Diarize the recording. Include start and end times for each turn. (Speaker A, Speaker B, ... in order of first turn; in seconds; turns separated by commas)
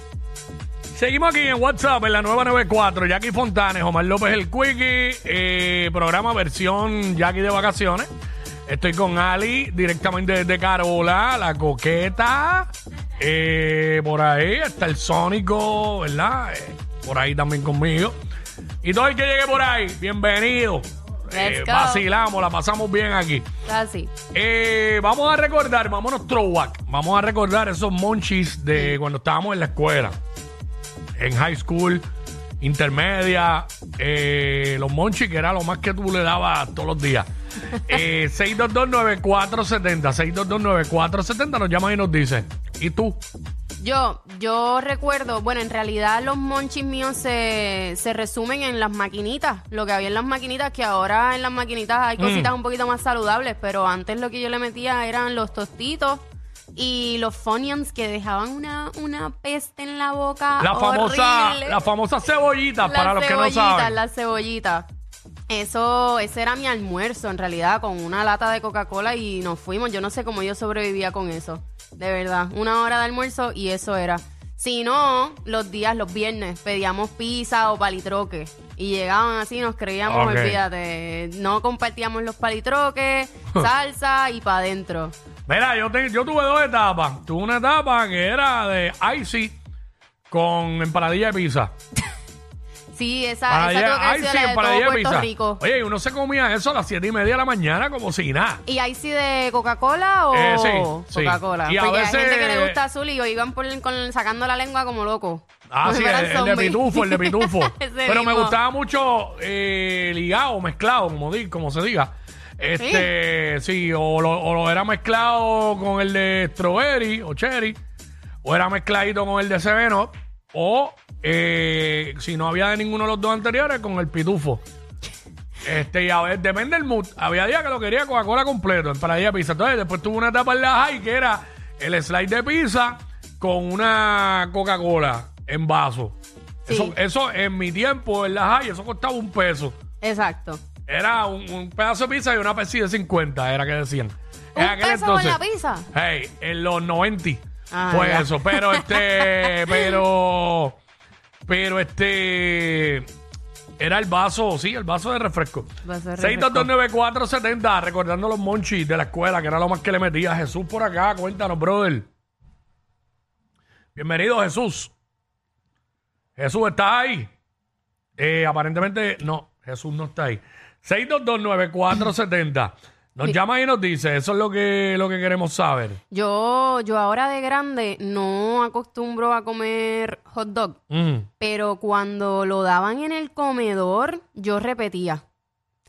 Speaker A: 0.9-8.1, Speaker A: 8.7-18.2, Speaker A: 18.8-23.5, Speaker B: 21.3-22.1, Speaker B: 23.6-24.1, Speaker A: 24.3-30.2, Speaker A: 31.2-32.0, Speaker A: 32.6-37.3, Speaker A: 37.8-43.2, Speaker B: 43.8-61.8, Speaker A: 52.2-52.5, Speaker A: 60.6-64.0, Speaker B: 62.8-64.9, Speaker B: 65.5-85.1, Speaker A: 80.0-80.6, Speaker A: 85.5-89.6, Speaker A: 90.3-91.7, Speaker B: 92.9-95.6, Speaker A: 93.5-98.6, Speaker B: 98.7-108.6, Speaker A: 100.3-102.8, Speaker A: 105.7-117.8, Speaker B: 112.8-113.1, Speaker A: 118.4-124.6, Speaker A: 125.6-136.2, Speaker B: 136.7-136.9, Speaker A: 136.7-139.8, Speaker B: 140.0-140.6, Speaker A: 140.9-150.8, Speaker B: 144.5-145.9, Speaker B: 147.7-150.0, Speaker A: 151.4-153.1, Speaker A: 153.8-162.1, Speaker B: 155.8-156.7, Speaker A: 163.9-164.9, Speaker A: 166.3-167.3, Speaker A: 168.2-176.0, Speaker B: 176.1-180.8, Speaker A: 180.9-181.3, Speaker B: 181.4-185.2